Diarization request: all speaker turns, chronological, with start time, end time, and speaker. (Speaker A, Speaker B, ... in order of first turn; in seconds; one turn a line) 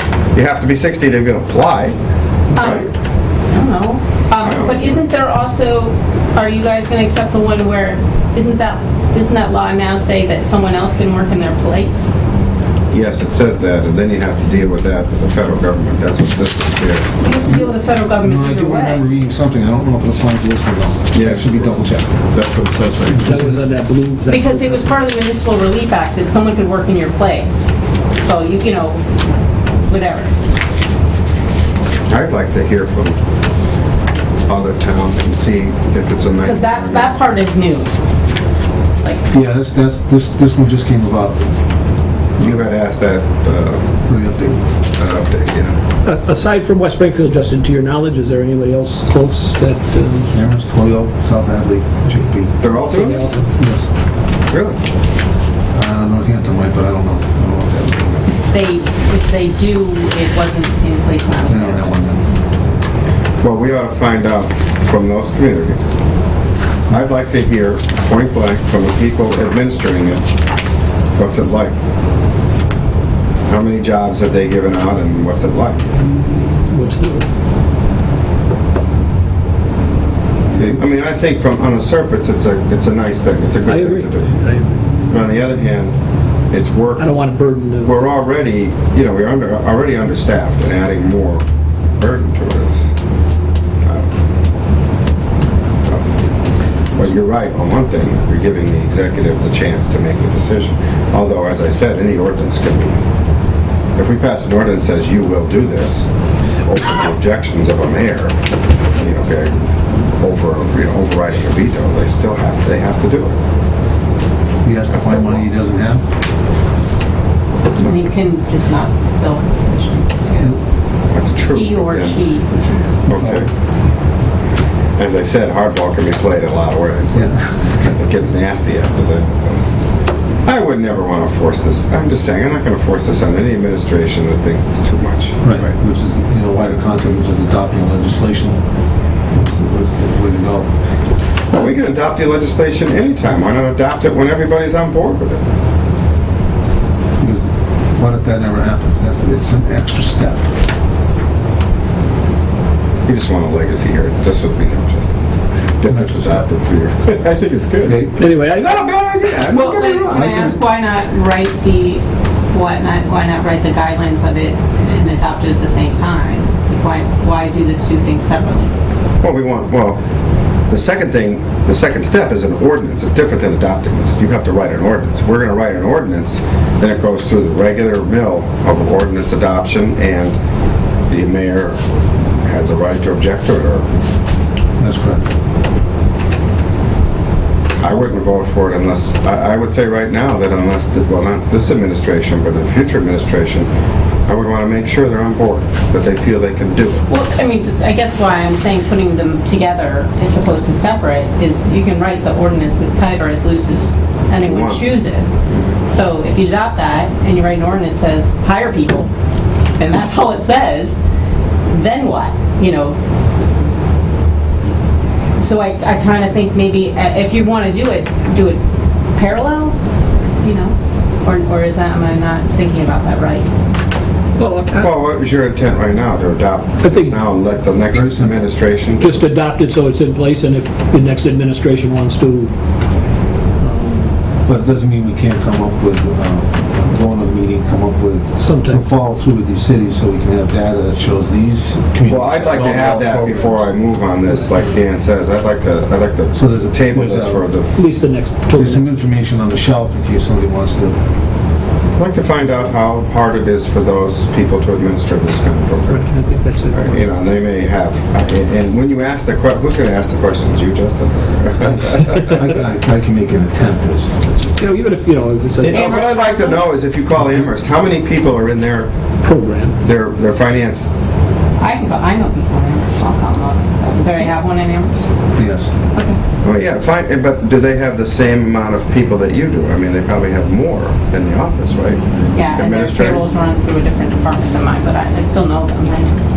Speaker A: 0.3-2.0
Speaker A: 2.5-2.9
Speaker B: 2.5-2.9
Speaker B: 3.5-12.1
Speaker A: 4.4-4.9
Speaker A: 12.9-17.1
Speaker B: 17.2-19.0
Speaker C: 18.2-22.2
Speaker A: 21.1-23.4
Speaker C: 23.1-23.7
Speaker D: 23.2-24.9
Speaker B: 24.3-29.0
Speaker B: 29.9-30.3
Speaker A: 32.1-33.2
Speaker A: 34.5-37.2
Speaker B: 36.4-37.9
Speaker B: 39.0-39.3
Speaker C: 39.3-41.5
Speaker A: 42.4-43.8
Speaker C: 44.1-44.7
Speaker A: 45.0-45.8
Speaker D: 46.0-50.3
Speaker C: 50.3-52.6
Speaker A: 52.6-53.3
Speaker D: 52.7-53.5
Speaker C: 53.6-53.9
Speaker A: 54.5-54.8
Speaker C: 55.7-58.3
Speaker B: 58.5-62.0
Speaker C: 61.5-62.4
Speaker A: 63.4-65.9
Speaker A: 66.9-70.3
Speaker A: 71.2-71.8
Speaker A: 73.5-75.9
Speaker D: 76.7-77.3
Speaker C: 80.5-80.8
Speaker A: 80.8-84.3
Speaker D: 83.7-84.9
Speaker A: 85.1-86.0
Speaker A: 86.5-87.2
Speaker D: 87.0-88.0
Speaker A: 87.8-91.4
Speaker A: 92.0-92.9
Speaker A: 93.8-94.1
Speaker A: 95.8-96.1
Speaker A: 97.0-103.0
Speaker A: 104.0-106.1
Speaker A: 106.7-108.3
Speaker A: 109.0-113.4
Speaker C: 114.6-116.0
Speaker A: 114.9-115.5
Speaker B: 117.8-120.6
Speaker A: 121.1-122.2
Speaker B: 121.5-122.5
Speaker C: 122.8-123.5
Speaker A: 123.1-123.5
Speaker A: 125.0-129.6
Speaker C: 127.1-128.0
Speaker A: 130.4-135.7
Speaker C: 135.4-138.6
Speaker A: 136.6-136.8
Speaker C: 139.3-140.7
Speaker A: 141.5-145.4
Speaker C: 147.2-150.5
Speaker A: 153.1-155.1
Speaker A: 155.8-160.5
Speaker C: 155.9-156.5
Speaker C: 157.8-158.2
Speaker D: 158.2-158.8
Speaker B: 159.5-168.7
Speaker C: 160.1-160.6
Speaker A: 169.2-170.0
Speaker A: 170.7-180.4
Speaker A: 181.1-181.8
Speaker A: 182.4-183.9
Speaker C: 184.8-185.3
Speaker A: 187.8-193.7
Speaker A: 194.3-197.0
Speaker B: 197.1-209.1
Speaker A: 204.4-204.9
Speaker B: 209.8-211.0
Speaker B: 211.7-213.0
Speaker B: 215.4-218.6
Speaker B: 219.2-219.8
Speaker B: 220.4-223.5
Speaker D: 224.4-224.9
Speaker A: 224.8-229.2
Speaker D: 226.8-227.2
Speaker C: 227.9-228.6
Speaker D: 229.0-232.5
Speaker D: 233.6-234.1
Speaker C: 234.5-243.7
Speaker D: 238.4-238.9
Speaker A: 242.0-247.7
Speaker D: 244.3-244.6
Speaker C: 246.3-247.5
Speaker D: 247.7-248.9
Speaker C: 248.6-251.0
Speaker A: 252.0-256.1
Speaker D: 255.9-257.1
Speaker A: 256.7-262.4
Speaker C: 261.6-264.7
Speaker D: 264.6-266.1
Speaker A: 265.6-268.9
Speaker B: 265.7-266.7
Speaker D: 269.2-269.8
Speaker A: 269.8-270.9
Speaker B: 271.6-275.1
Speaker C: 275.4-275.8
Speaker B: 275.9-276.2
Speaker A: 276.4-283.2
Speaker B: 282.4-286.2